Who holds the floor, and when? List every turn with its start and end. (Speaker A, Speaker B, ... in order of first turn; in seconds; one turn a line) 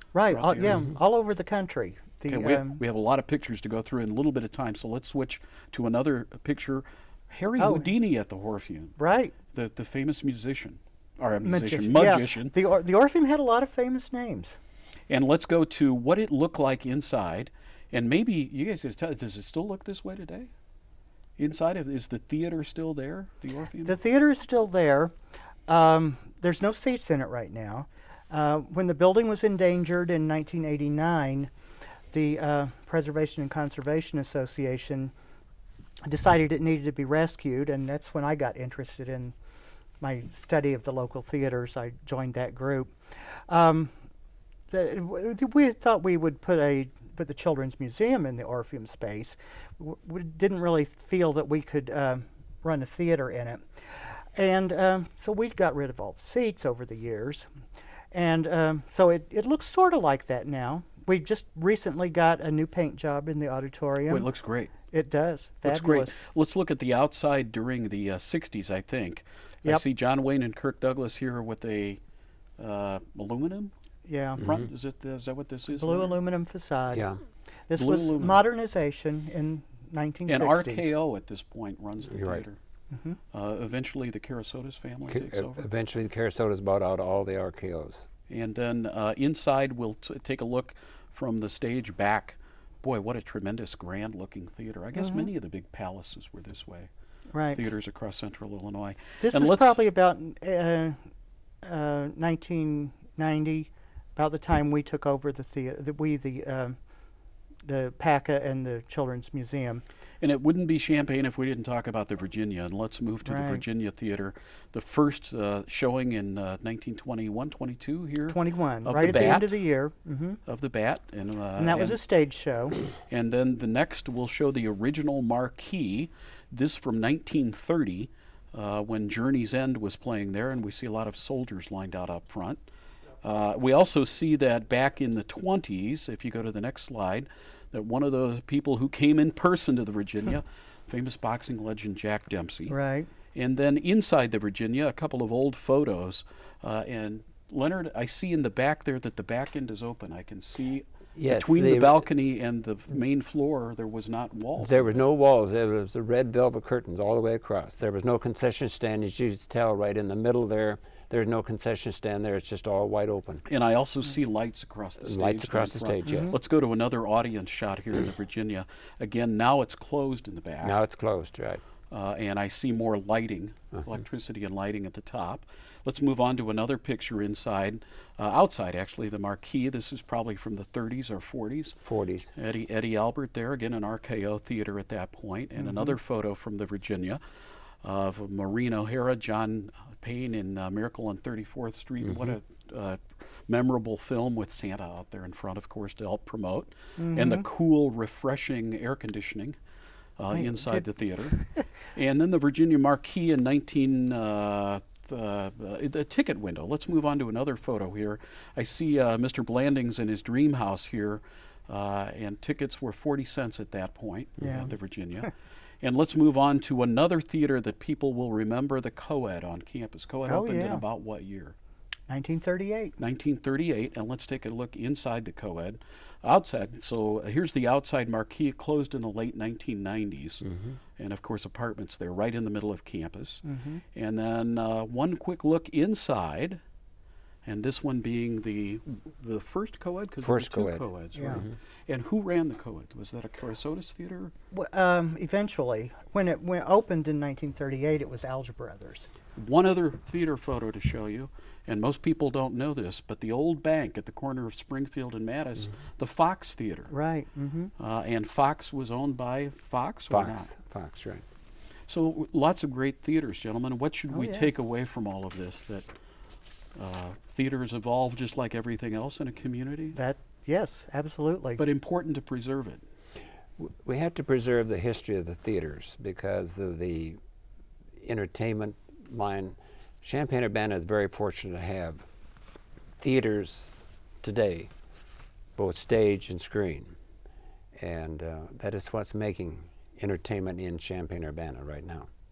Speaker A: 0.1-2.8
Speaker B: 0.3-0.9
Speaker B: 2.3-8.9
Speaker A: 7.6-7.9
Speaker A: 9.0-9.3
Speaker B: 9.5-12.5
Speaker A: 11.4-14.6
Speaker B: 15.1-20.5
Speaker B: 21.4-23.9
Speaker A: 23.9-25.1
Speaker A: 25.7-31.5
Speaker A: 32.1-35.1
Speaker A: 36.0-39.3
Speaker A: 40.0-43.9
Speaker A: 44.7-57.5
Speaker A: 58.1-64.3
Speaker B: 64.1-64.7
Speaker A: 64.9-66.2
Speaker B: 65.6-72.0
Speaker B: 72.6-73.7
Speaker A: 74.0-74.5
Speaker B: 74.3-76.1
Speaker A: 75.8-77.1
Speaker C: 76.9-77.2
Speaker A: 77.7-80.9
Speaker B: 77.8-78.4
Speaker B: 80.3-82.6
Speaker C: 82.1-82.4
Speaker A: 82.9-83.2
Speaker B: 83.3-85.7
Speaker C: 85.1-88.0
Speaker B: 88.3-96.9
Speaker A: 95.0-95.3
Speaker A: 97.3-97.7
Speaker B: 97.5-99.8
Speaker A: 99.2-101.0
Speaker A: 101.6-106.8
Speaker A: 107.6-109.8
Speaker B: 110.2-119.6
Speaker A: 113.2-113.6
Speaker A: 118.3-120.4
Speaker B: 120.5-122.0
Speaker A: 121.6-122.8
Speaker B: 123.1-132.6
Speaker B: 133.2-142.8
Speaker A: 142.7-143.1
Speaker B: 143.3-154.9
Speaker C: 151.2-152.0
Speaker C: 154.6-163.4
Speaker B: 163.4-170.8
Speaker C: 165.0-166.3
Speaker A: 166.0-166.3
Speaker C: 170.6-171.6
Speaker B: 171.9-181.8
Speaker C: 181.8-182.3
Speaker B: 182.3-187.2
Speaker A: 185.6-185.9
Speaker B: 187.8-199.6
Speaker A: 197.0-197.4
Speaker B: 200.2-221.6
Speaker A: 200.3-201.6
Speaker A: 214.4-214.7
Speaker A: 220.3-220.8
Speaker A: 222.1-223.0
Speaker B: 223.0-236.6
Speaker A: 233.4-233.8
Speaker B: 237.4-244.3
Speaker C: 240.2-240.8
Speaker A: 241.2-241.4
Speaker A: 244.5-249.1
Speaker B: 249.3-256.9
Speaker A: 256.9-257.7
Speaker B: 257.8-260.5
Speaker C: 260.1-261.2
Speaker B: 261.9-265.9
Speaker A: 264.1-264.5
Speaker B: 266.7-270.0
Speaker A: 269.9-271.6
Speaker B: 271.6-272.8
Speaker C: 273.6-277.2
Speaker C: 278.0-282.1
Speaker C: 283.0-284.7
Speaker C: 285.6-286.9
Speaker C: 287.7-292.1